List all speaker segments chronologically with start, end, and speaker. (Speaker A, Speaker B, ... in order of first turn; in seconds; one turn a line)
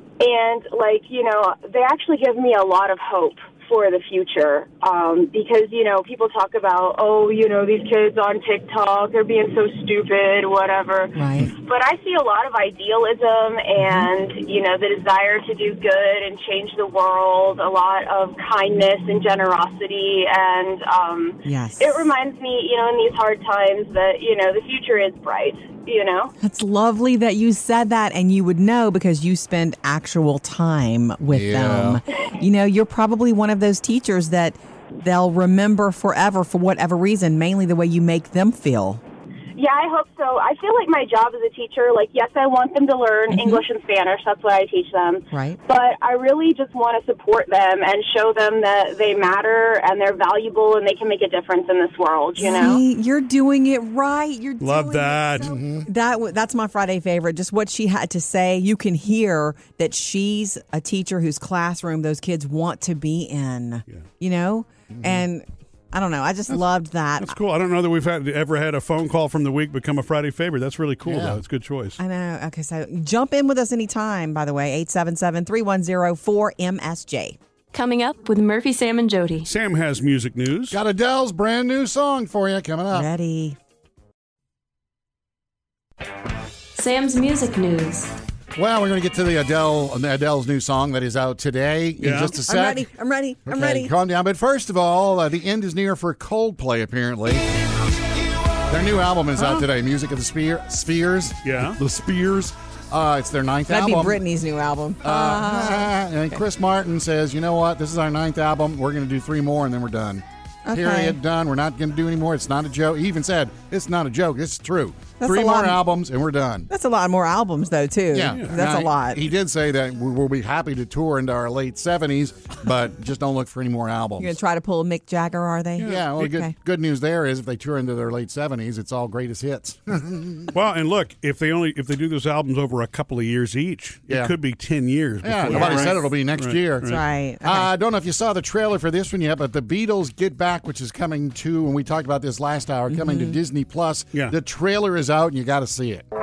Speaker A: 0.2-26.3
Speaker B: 11.1-11.5
Speaker B: 13.8-14.1
Speaker B: 21.4-22.1
Speaker B: 26.4-39.0
Speaker C: 31.2-32.0
Speaker A: 39.5-52.8
Speaker B: 43.3-43.6
Speaker B: 45.3-45.6
Speaker B: 52.4-67.4
Speaker D: 54.6-55.5
Speaker C: 55.4-55.9
Speaker C: 64.9-65.2
Speaker D: 67.2-72.0
Speaker C: 71.0-71.4
Speaker B: 72.0-77.4
Speaker E: 77.7-79.5
Speaker D: 79.4-80.8
Speaker C: 80.7-83.1
Speaker B: 82.9-83.6
Speaker E: 86.8-88.1
Speaker C: 88.5-92.9
Speaker D: 92.0-92.3
Speaker B: 92.3-93.9
Speaker C: 93.5-97.5
Speaker C: 98.7-104.2
Speaker D: 101.4-101.8
Speaker B: 103.7-105.9
Speaker C: 105.0-116.7
Speaker B: 110.7-111.2
Speaker B: 115.2-115.8
Speaker B: 116.7-119.2
Speaker C: 118.1-124.4
Speaker B: 124.2-126.5
Speaker D: 125.8-126.1
Speaker C: 125.8-130.5
Speaker D: 130.5-137.0
Speaker C: 134.1-134.3
Speaker C: 135.2-146.0
Speaker B: 135.5-136.0
Speaker B: 136.8-137.7
Speaker B: 142.9-143.4